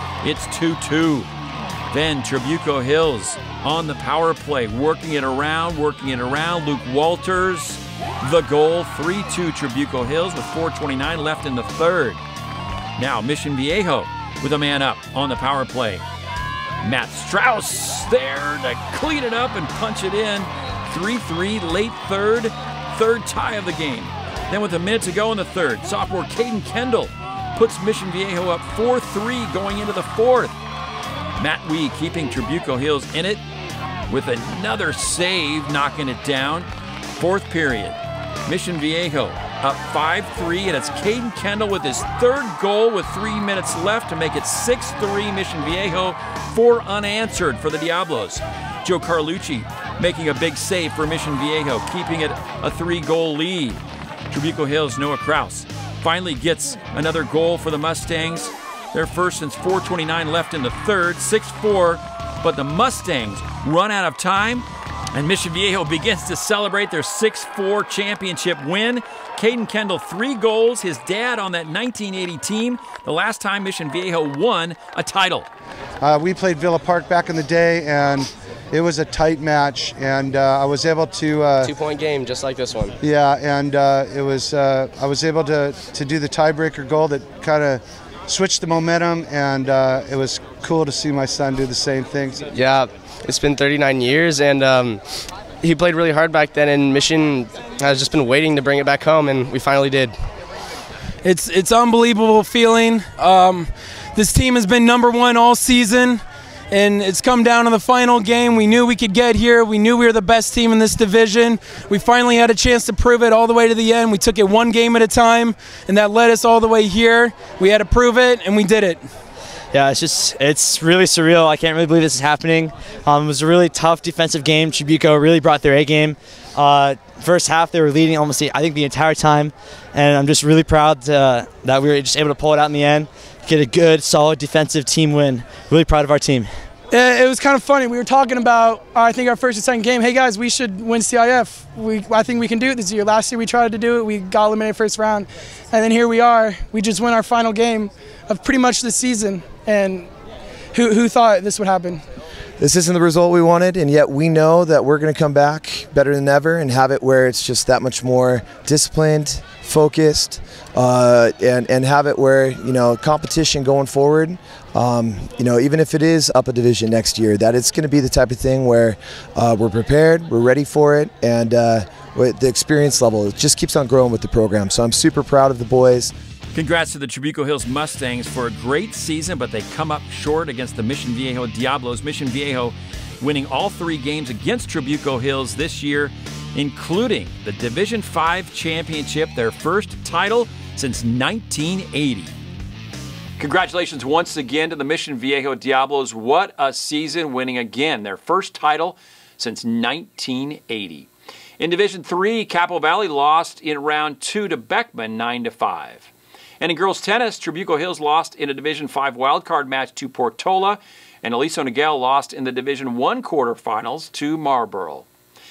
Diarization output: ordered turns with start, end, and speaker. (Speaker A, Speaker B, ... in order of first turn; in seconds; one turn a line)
Speaker A: 0.2-1.3
Speaker A: 1.9-12.2
Speaker A: 13.0-16.0
Speaker A: 16.8-30.6
Speaker A: 31.4-33.4
Speaker A: 34.1-75.5
Speaker B: 76.0-81.7
Speaker C: 81.6-83.0
Speaker B: 83.0-92.5
Speaker C: 92.5-100.2
Speaker D: 101.2-119.0
Speaker E: 119.7-136.5
Speaker F: 136.9-150.1
Speaker F: 150.7-152.0
Speaker G: 152.6-176.1
Speaker A: 176.5-192.3
Speaker A: 193.4-215.1